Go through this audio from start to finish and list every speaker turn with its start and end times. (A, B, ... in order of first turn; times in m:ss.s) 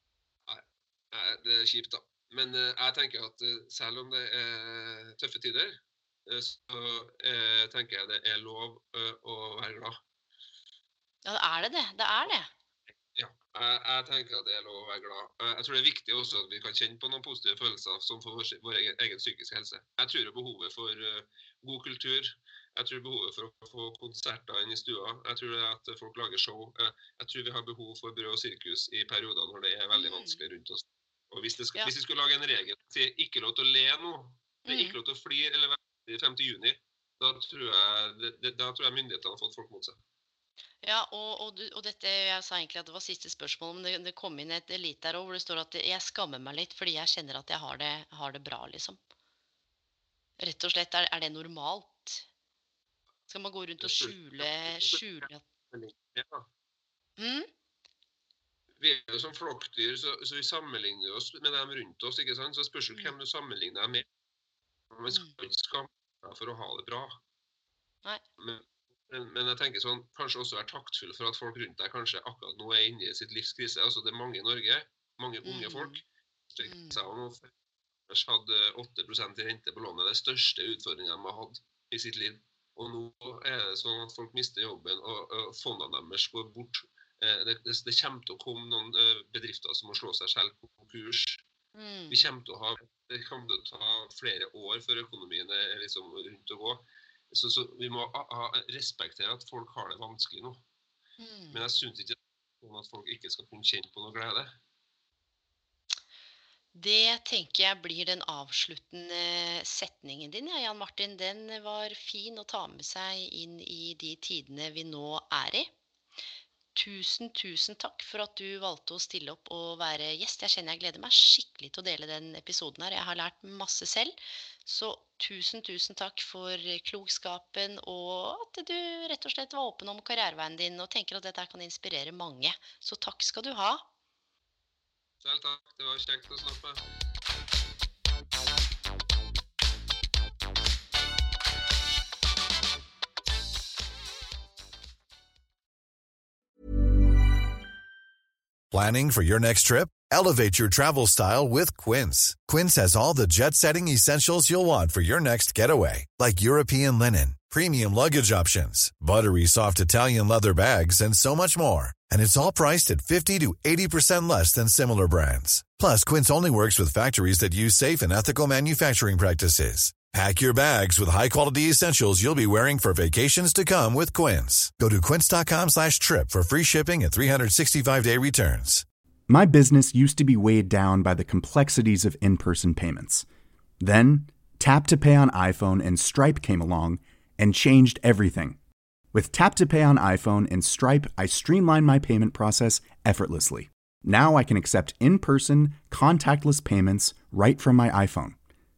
0:00.5-0:10.0 A
0:11.2-0:12.5 B
0:13.1-0:40.0 A
0:29.9-0:30.4 B
0:34.7-0:35.0 B
0:40.8-0:49.0 B
0:50.4-0:52.3 B
0:53.3-0:55.4 B
0:53.8-0:56.5 A
0:57.2-0:57.5 B
0:58.8-1:04.1 A
1:02.9-1:03.2 B
1:04.9-1:07.2 A
1:05.1-1:05.4 B
1:08.4-1:17.5 A
1:15.4-1:16.0 B
1:16.6-1:17.0 B
1:18.1-1:31.4 A
1:31.7-1:32.3 B
1:32.1-1:40.6 A
1:41.2-1:41.7 B
1:41.5-1:44.6 A
1:46.7-1:55.7 B
1:56.8-2:13.8 B
2:15.2-2:16.8 A
2:28.7-2:58.8 C
2:59.3-3:03.2 D
3:03.8-3:08.6 D
3:09.1-3:18.4 D